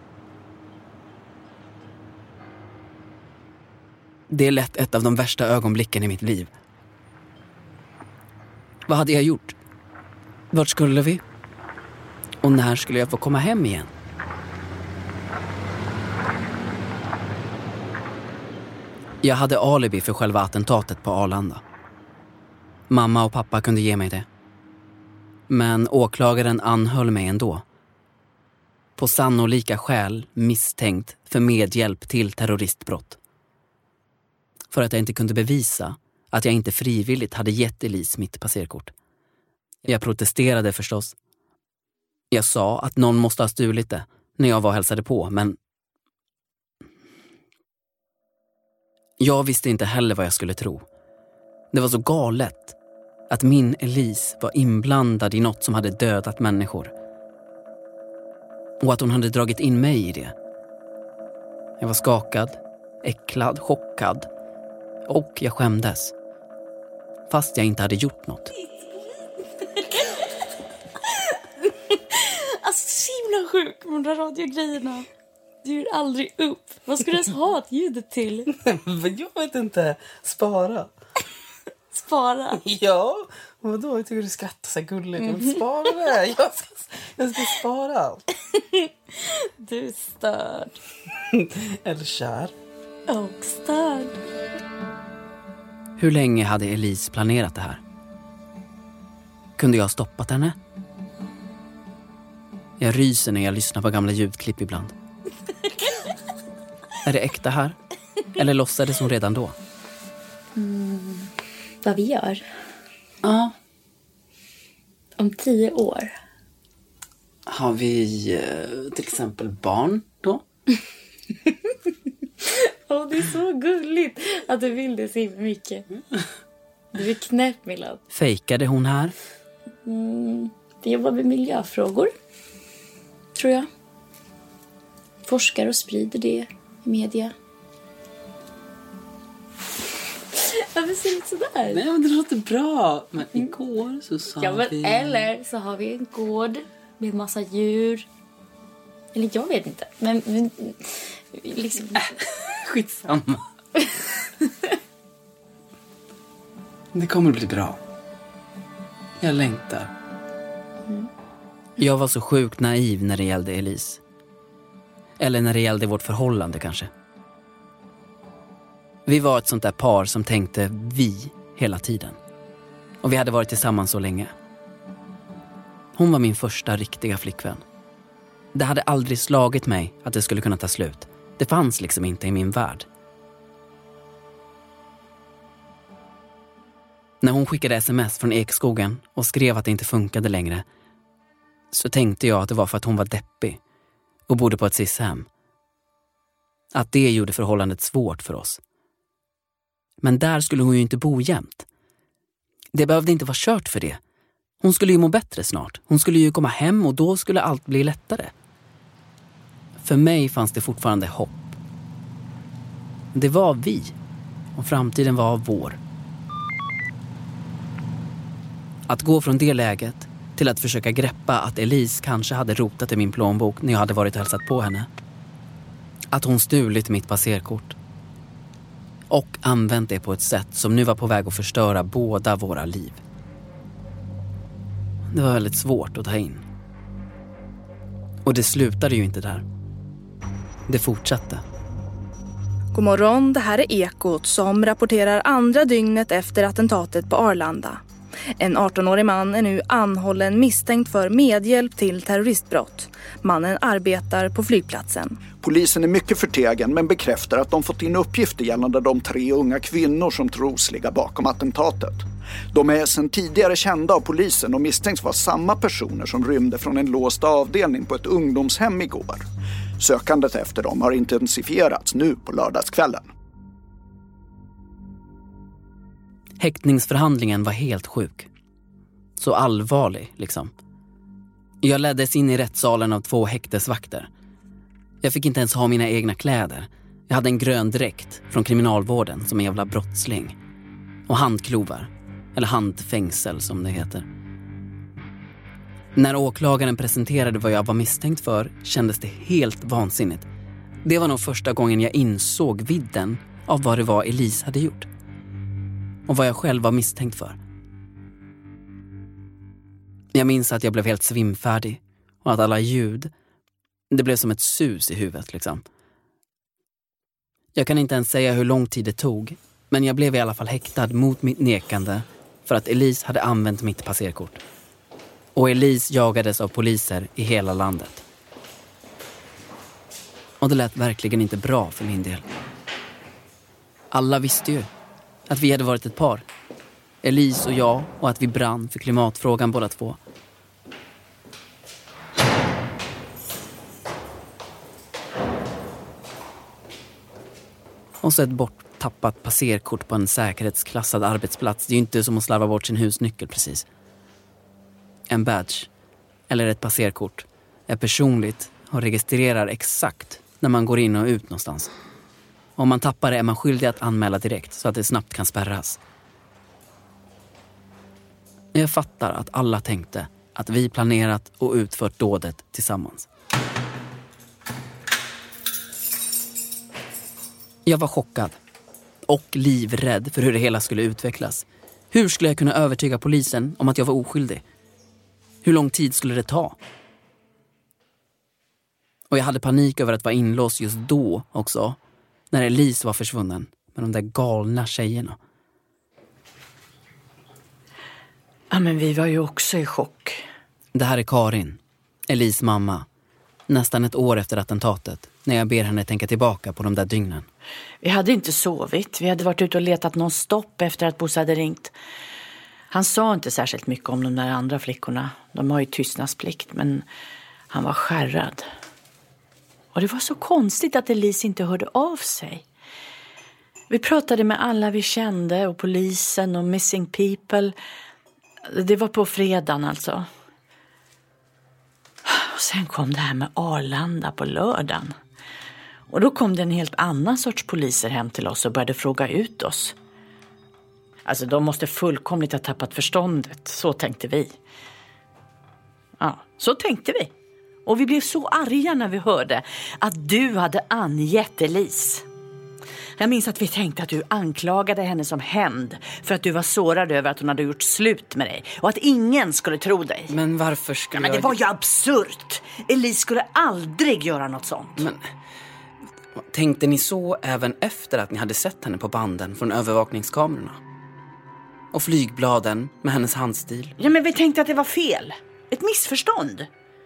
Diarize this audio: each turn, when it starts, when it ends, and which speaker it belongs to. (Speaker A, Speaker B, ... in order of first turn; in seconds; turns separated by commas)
Speaker A: 4.3-6.5, Speaker A: 8.9-9.6, Speaker A: 10.5-11.2, Speaker A: 12.4-13.9, Speaker A: 19.2-21.6, Speaker A: 22.9-24.3, Speaker A: 25.5-27.6, Speaker A: 29.0-33.2, Speaker A: 34.7-38.9, Speaker A: 39.8-41.1, Speaker A: 42.3-45.6, Speaker A: 49.2-50.9, Speaker A: 51.7-52.8, Speaker A: 53.3-56.9, Speaker A: 58.8-60.3, Speaker A: 61.8-64.3, Speaker A: 65.1-66.1, Speaker A: 67.3-68.5, Speaker B: 72.6-75.1, Speaker B: 75.6-78.5, Speaker C: 78.6-80.9, Speaker B: 81.9-82.6, Speaker C: 82.6-88.2, Speaker B: 85.2-85.9, Speaker B: 89.6-90.8, Speaker C: 91.4-92.5, Speaker B: 93.1-94.2, Speaker A: 96.0-97.8, Speaker A: 99.6-100.5, Speaker A: 102.8-104.9, Speaker A: 107.0-107.8, Speaker A: 108.3-109.5, Speaker B: 110.5-111.3, Speaker B: 111.8-112.4, Speaker A: 113.2-113.5, Speaker B: 115.2-116.1, Speaker A: 117.5-120.4, Speaker B: 122.9-125.8, Speaker B: 126.9-128.0, Speaker A: 128.1-129.1, Speaker B: 129.8-132.1, Speaker B: 133.3-133.7, Speaker B: 135.2-137.3, Speaker B: 140.7-141.8, Speaker C: 141.7-145.3, Speaker B: 144.3-148.1, Speaker B: 149.1-150.8, Speaker B: 151.3-152.1, Speaker C: 152.7-153.3, Speaker A: 156.9-157.7, Speaker A: 159.2-159.9, Speaker A: 161.8-164.0, Speaker A: 165.2-166.9, Speaker A: 169.1-172.2, Speaker A: 173.0-174.3, Speaker A: 175.9-177.6, Speaker A: 178.5-182.8, Speaker A: 187.2-190.6, Speaker A: 191.7-193.6, Speaker A: 194.3-195.3, Speaker A: 196.7-198.6, Speaker A: 200.0-201.7, Speaker A: 202.7-204.0, Speaker A: 204.6-208.3, Speaker A: 209.8-211.6, Speaker A: 213.1-213.9, Speaker A: 214.6-215.8, Speaker A: 218.9-224.9, Speaker A: 226.1-227.8, Speaker A: 229.1-233.0, Speaker A: 235.1-236.4, Speaker A: 238.2-239.4, Speaker A: 240.7-241.4, Speaker D: 242.7-247.8, Speaker D: 248.4-255.2, Speaker E: 255.4-269.2, Speaker E: 269.8-273.1, Speaker A: 276.4-278.3, Speaker A: 279.2-280.5, Speaker A: 281.6-284.1, Speaker A: 285.0-290.4, Speaker A: 291.1-294.1, Speaker A: 295.9-300.3, Speaker A: 300.8-304.9, Speaker A: 306.1-307.4, Speaker A: 310.1-313.1, Speaker A: 313.9-315.6, Speaker A: 317.5-324.4, Speaker A: 325.3-328.0, Speaker A: 330.4-332.2, Speaker A: 333.9-334.7, Speaker A: 335.3-336.2, Speaker A: 337.0-340.0, Speaker A: 348.0-353.6, Speaker A: 355.1-355.7, Speaker A: 356.3-361.7, Speaker A: 362.6-365.8, Speaker A: 368.5-373.1, Speaker A: 377.6-378.4, Speaker A: 379.1-384.4, Speaker A: 385.4-386.6, Speaker A: 389.1-391.8, Speaker A: 392.3-395.2, Speaker F: 398.5-400.2, Speaker A: 400.7-402.9, Speaker A: 403.5-407.3, Speaker F: 407.8-411.7, Speaker F: 412.7-416.8, Speaker F: 417.5-418.4, Speaker F: 419.7-422.4, Speaker F: 423.7-427.5, Speaker F: 428.4-430.1, Speaker F: 432.0-434.9, Speaker F: 435.9-439.7, Speaker F: 441.0-444.4, Speaker F: 446.0-447.1, Speaker F: 447.6-452.0, Speaker F: 453.0-460.1, Speaker A: 460.1-461.4, Speaker F: 460.9-464.8, Speaker A: 464.8-465.1, Speaker A: 466.2-470.6, Speaker A: 471.7-473.8, Speaker F: 473.8-476.5